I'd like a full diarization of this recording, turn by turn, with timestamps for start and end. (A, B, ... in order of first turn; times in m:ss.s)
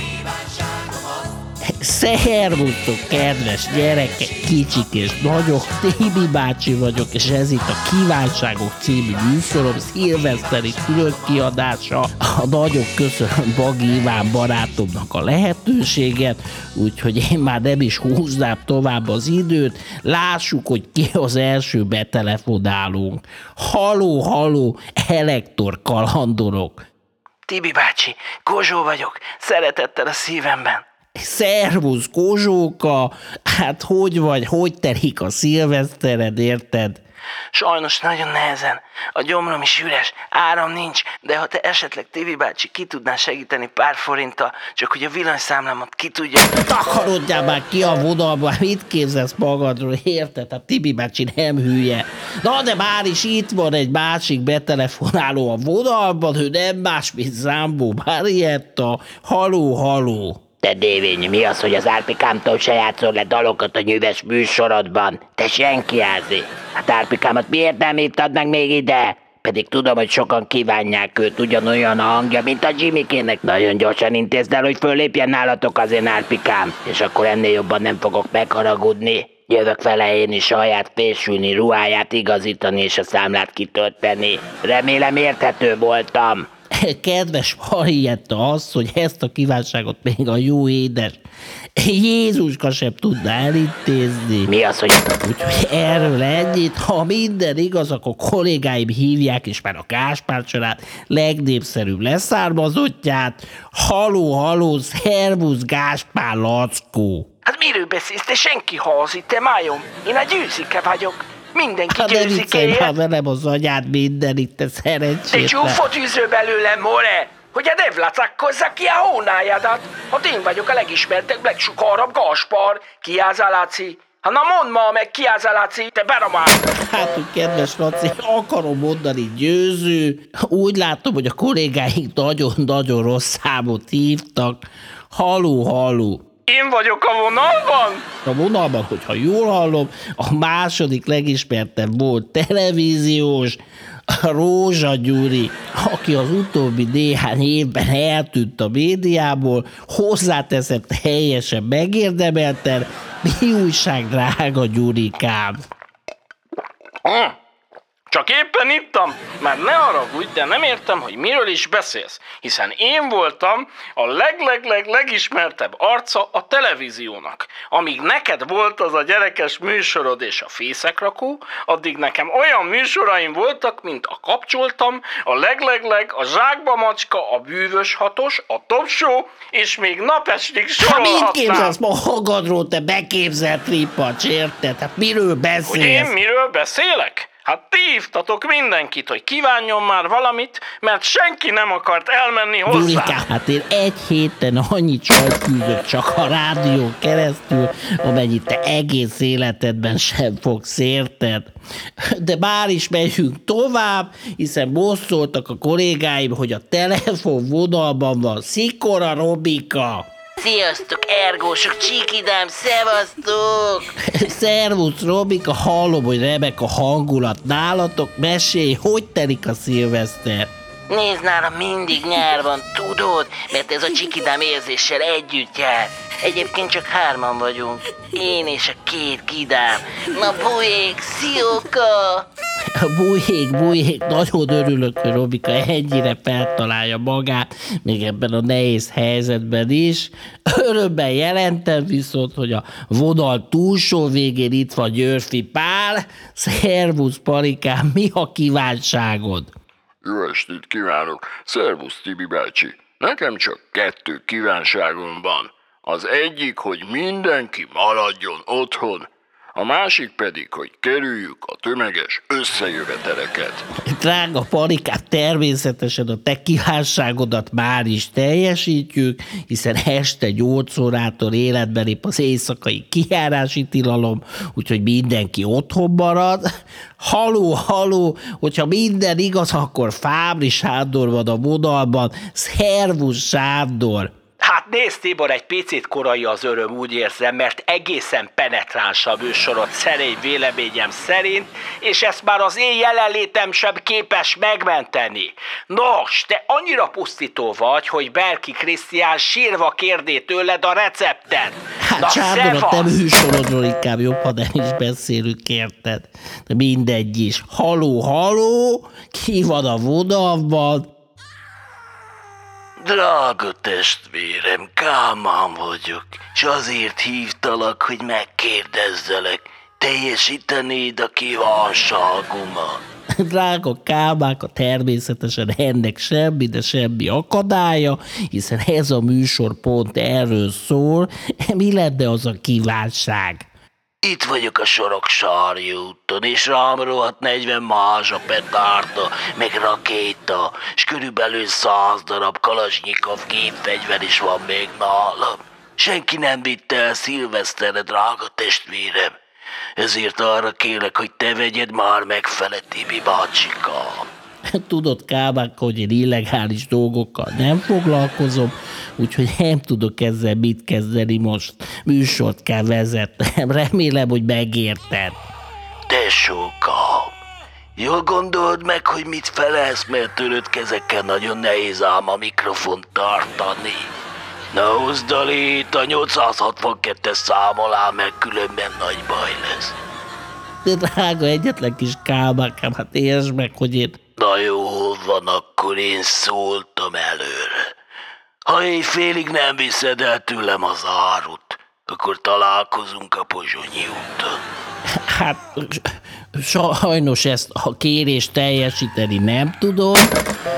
0:01.8-0:26.8 A
0:27.5-0:30.8 B
0:31.2-0:37.0 A
0:37.5-0:46.6 B
0:46.6-1:00.4 A
1:00.6-1:26.5 C
1:26.8-1:31.2 A
1:31.8-1:34.5 A
1:34.5-1:35.1 C
1:35.2-1:47.3 A
1:47.5-1:52.9 B
1:51.9-1:55.8 A
1:55.3-2:06.6 B
2:06.8-2:14.6 A
2:15.1-2:16.2 A
2:16.5-2:18.0 B
2:18.2-2:23.6 A
2:24.1-2:35.6 A
2:37.0-2:37.4 B
2:38.1-3:01.8 B
3:00.8-3:06.1 A
3:05.6-3:13.2 B
3:12.7-3:21.5 A
3:22.1-3:30.1 A
3:30.4-3:34.0 C
3:34.1-3:40.5 A
3:40.9-3:52.2 C
3:52.8-4:09.5 A
4:10.0-4:23.6 D
4:23.9-4:36.4 A
4:37.0-4:44.1 A
4:44.4-5:03.0 B
5:01.9-5:10.9 A
5:12.9-5:13.9 E
5:16.4-5:17.4 E
5:23.2-5:33.5 A
5:34.1-5:34.7 E
5:36.9-5:38.0 E
5:39.0-5:39.5 E
5:41.5-5:41.9 E
5:42.4-5:43.9 E
5:44.5-5:45.0 E
5:45.9-5:48.7 E
5:51.3-5:51.9 E
5:54.5-6:05.2 A
6:05.9-6:07.1 E
6:07.8-6:13.9 E
6:14.5-6:19.6 E
6:20.6-6:24.0 A
6:25.7-6:27.0 E
6:29.7-6:30.6 E
6:31.4-6:32.0 E
6:35.1-6:40.1 A